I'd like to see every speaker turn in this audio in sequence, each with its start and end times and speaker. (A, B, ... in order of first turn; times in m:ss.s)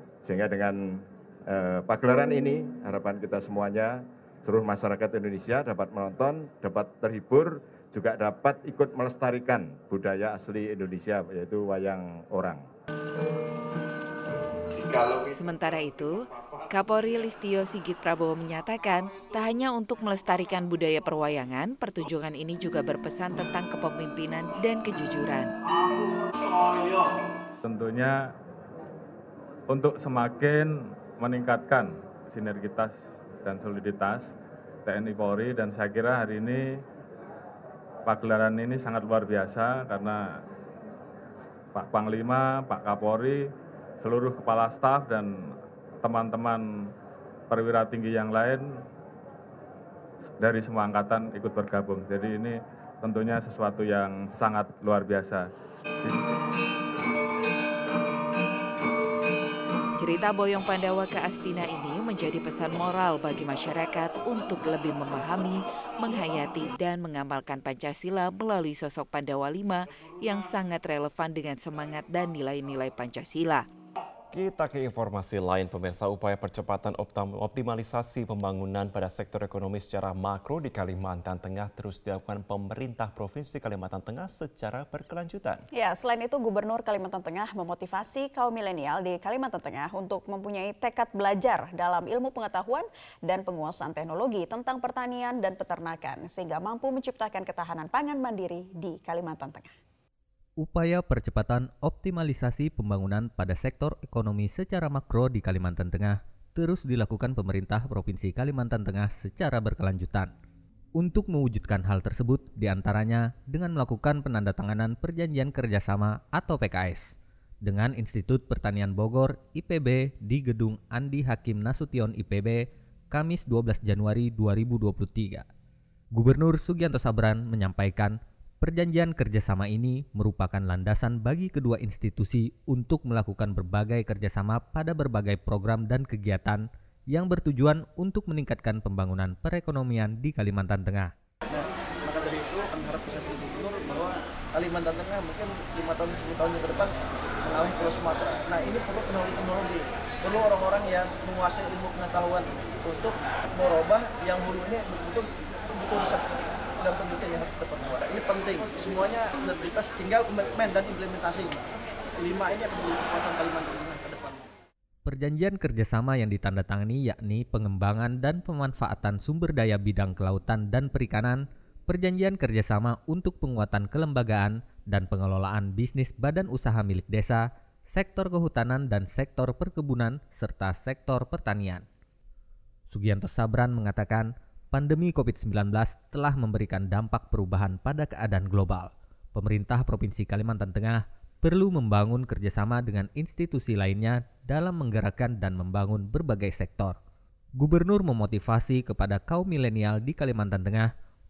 0:00.2-0:12.7 A
0:15.3-0:25.5 B
0:27.7-0:28.2 C
0:29.7-0:34.3 C
0:34.9-0:36.6 C
0:38.1-0:40.2 C
0:41.8-0:43.4 C
0:44.0-0:45.3 C
0:46.0-0:46.6 C
0:47.5-0:48.7 C
0:50.4-0:55.4 C
1:00.0-1:13.6 B
1:14.3-1:25.6 D
1:25.7-1:39.7 E
1:40.6-1:50.3 F
1:51.0-2:05.4 F
2:06.1-2:21.1 F
2:21.5-2:26.9 G
2:27.4-2:44.5 G
2:45.0-3:01.8 F
3:02.9-3:17.0 F
3:17.6-3:20.9 F